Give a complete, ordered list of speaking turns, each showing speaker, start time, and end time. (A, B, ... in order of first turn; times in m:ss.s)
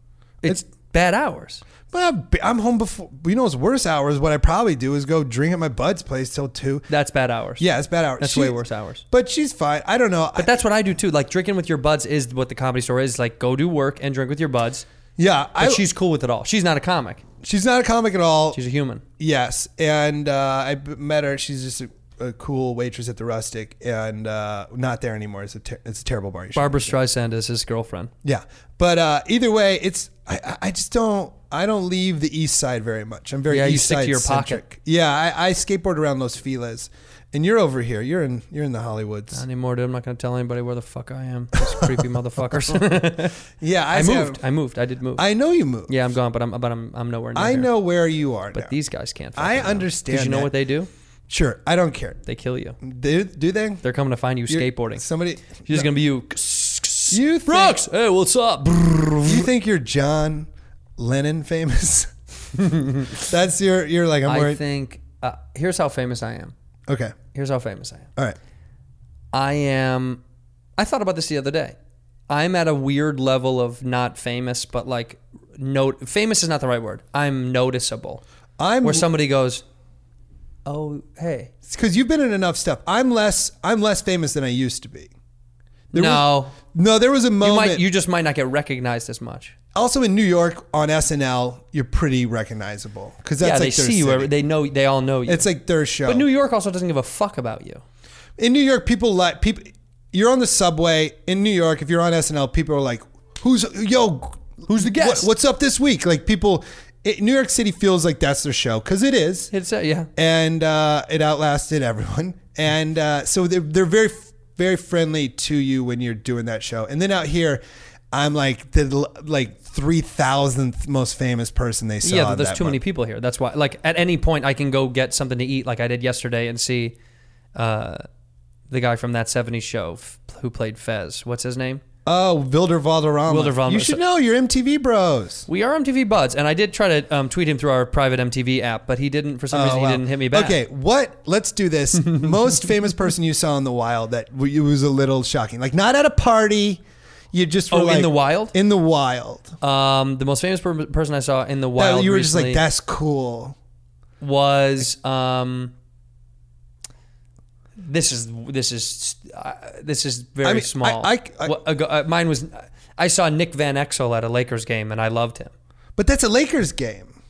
0:00.4-0:01.6 A
0:01.9-0:06.9 B
0:06.9-0:07.7 A
0:07.6-0:08.6 B
0:08.2-0:09.0 A
0:09.1-0:10.5 B
0:10.4-0:14.8 A
0:15.2-0:15.8 B
0:15.6-0:17.2 A
0:17.4-0:18.6 B
0:18.5-0:19.0 A
0:19.2-0:27.0 B
0:26.5-0:28.1 A
0:28.2-0:39.4 B
0:33.5-0:34.6 A
0:39.3-0:43.4 A
0:41.6-0:42.0 B
0:42.5-0:43.0 B
0:43.6-0:44.4 B
0:43.9-0:45.2 A
0:45.2-0:45.9 B
0:45.9-0:47.7 A
0:47.3-0:48.7 B
0:48.5-0:50.9 A
0:49.4-0:50.5 B
0:51.3-0:52.2 B
0:52.2-0:52.8 A
0:52.8-0:53.8 B
0:53.8-0:59.5 A
0:54.5-0:55.9 B
0:57.1-0:57.8 B
0:59.2-1:02.1 B
1:02.6-1:03.1 A
1:03.1-1:04.6 B
1:04.3-1:06.5 A
1:06.9-1:07.2 B
1:07.3-1:08.1 A
1:09.3-1:10.2 A
1:10.8-1:11.7 A
1:12.3-1:18.2 A
1:18.6-1:19.1 B
1:18.8-1:19.6 A
1:20.6-1:21.5 A
1:21.6-1:25.1 B
1:25.9-1:26.6 A
1:25.9-1:27.8 B
1:27.4-1:29.5 A
1:29.7-1:34.3 B
1:33.4-1:35.5 A
1:35.2-1:36.2 B
1:36.0-1:37.8 A
1:38.4-1:49.5 B
1:44.7-1:45.3 A
1:49.5-1:50.1 A
1:50.2-2:02.8 B
2:02.0-2:06.9 A
2:07.5-2:08.0 A
2:08.7-2:11.8 A
2:12.0-2:15.5 B
2:13.3-2:14.0 A
2:15.5-2:20.6 A
2:19.5-2:29.5 B
2:22.0-2:22.4 A
2:27.7-2:28.5 A
2:29.6-2:32.6 A
2:31.8-2:33.6 B
2:34.2-2:35.7 A
2:37.8-2:45.5 A
2:40.4-2:41.6 B
2:46.0-2:47.1 B